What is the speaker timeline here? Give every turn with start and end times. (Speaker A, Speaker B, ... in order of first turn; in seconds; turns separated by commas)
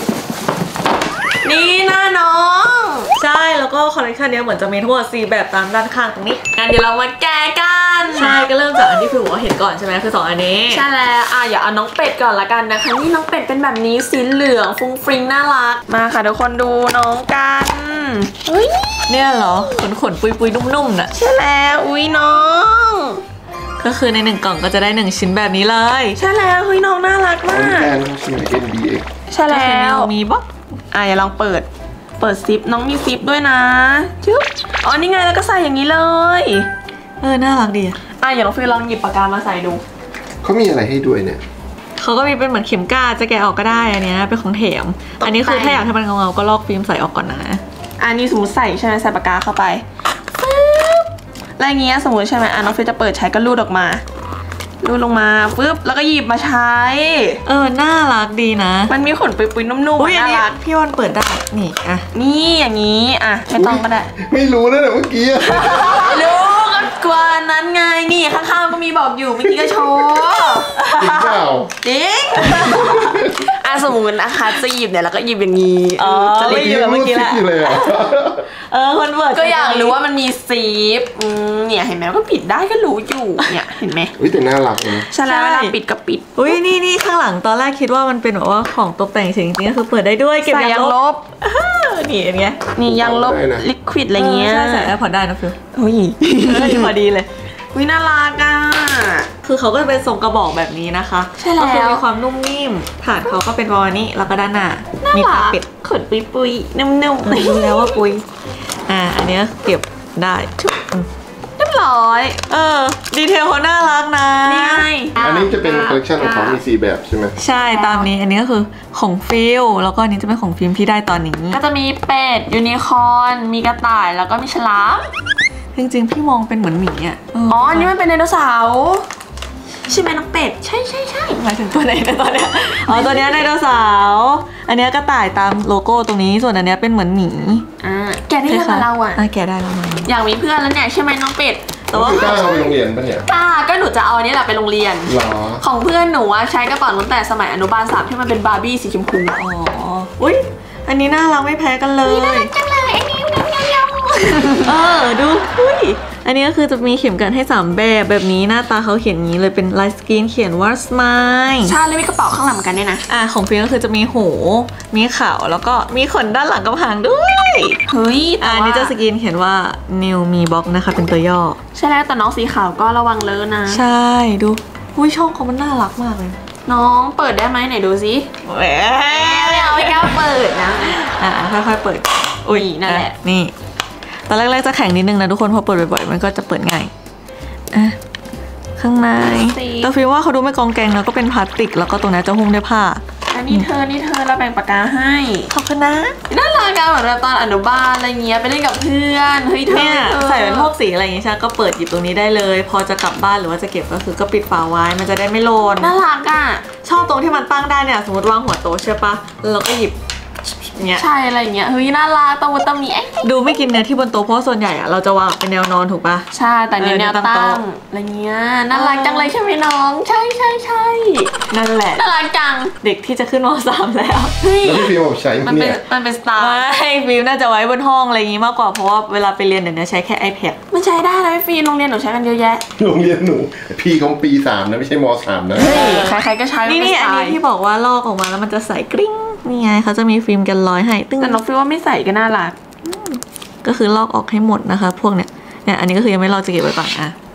Speaker A: 1.4-3.1, Speaker B: 3.2-6.4, Speaker A: 6.6-8.4, Speaker B: 8.1-10.8, Speaker A: 10.7-19.1, Speaker B: 19.1-21.1, Speaker A: 21.1-23.2, Speaker B: 23.8-26.2, Speaker A: 26.2-27.9, Speaker C: 27.5-29.1, Speaker A: 29.3-30.1, Speaker B: 29.5-30.5, Speaker A: 30.9-31.7, Speaker A: 32.2-36.7, Speaker B: 37.2-38.0, Speaker A: 38.2-39.8, Speaker C: 40.4-41.4, Speaker B: 42.0-47.6, Speaker A: 45.2-45.9, Speaker A: 48.0-49.8, Speaker A: 50.4-54.0, Speaker A: 54.8-57.4, Speaker B: 57.5-58.9, Speaker A: 58.9-60.6, Speaker B: 60.0-62.1, Speaker A: 62.1-64.1, Speaker C: 63.6-66.2, Speaker A: 65.5-70.8, Speaker B: 70.8-71.3, Speaker C: 70.9-71.7, Speaker A: 71.8-76.8, Speaker C: 72.7-73.2, Speaker B: 76.0-77.8, Speaker C: 76.3-78.5, Speaker B: 78.7-79.9, Speaker A: 79.3-84.1, Speaker C: 84.2-85.1, Speaker A: 85.1-86.6, Speaker B: 85.2-85.8, Speaker B: 86.4-92.6, Speaker A: 90.4-91.2, Speaker A: 92.7-94.9, Speaker C: 92.9-93.7, Speaker B: 94.2-95.6, Speaker A: 95.7-96.9, Speaker B: 96.4-97.3, Speaker A: 97.7-99.3, Speaker B: 99.4-105.7, Speaker A: 101.4-102.0, Speaker A: 105.0-108.0, Speaker B: 107.2-108.2, Speaker B: 108.9-111.1, Speaker A: 111.6-112.4, Speaker B: 112.5-114.9, Speaker A: 114.4-116.6, Speaker C: 115.2-117.3, Speaker B: 117.4-121.6, Speaker A: 117.6-118.1, Speaker A: 121.5-125.1, Speaker B: 125.8-127.9, Speaker A: 127.5-129.1, Speaker A: 129.9-131.4, Speaker B: 131.4-137.6, Speaker A: 132.9-133.3, Speaker A: 137.8-139.2, Speaker B: 138.5-140.1, Speaker A: 140.1-142.5, Speaker B: 141.9-142.7, Speaker C: 141.9-143.3, Speaker A: 143.3-149.4, Speaker C: 145.1-145.6, Speaker B: 149.3-152.5, Speaker A: 152.1-154.8, Speaker B: 154.5-161.8, Speaker A: 155.7-156.0, Speaker A: 161.6-163.0, Speaker B: 163.1-167.8, Speaker A: 167.9-168.9, Speaker B: 168.4-171.6, Speaker A: 171.8-173.8, Speaker B: 173.7-176.4, Speaker A: 176.7-178.3, Speaker B: 178.4-180.1, Speaker A: 179.1-181.0, Speaker B: 180.9-183.5, Speaker A: 182.5-183.2, Speaker B: 184.3-186.9, Speaker B: 188.8-193.7, Speaker A: 189.3-189.9, Speaker A: 193.3-195.5, Speaker B: 195.5-196.2, Speaker A: 196.3-200.7, Speaker B: 199.7-205.9, Speaker A: 205.8-206.6, Speaker B: 206.8-209.9, Speaker B: 210.6-211.0, Speaker A: 210.9-213.4, Speaker B: 213.2-216.3, Speaker A: 216.3-221.3, Speaker B: 216.8-217.6, Speaker B: 218.7-219.3, Speaker B: 221.5-222.0, Speaker A: 221.9-222.7, Speaker B: 222.8-224.3, Speaker A: 224.4-224.9, Speaker C: 224.6-225.8, Speaker A: 225.4-226.7, Speaker B: 226.4-230.6, Speaker A: 230.7-232.6, Speaker C: 232.8-235.8, Speaker A: 235.6-237.4, Speaker B: 235.6-241.4, Speaker A: 241.2-242.6, Speaker B: 242.8-247.1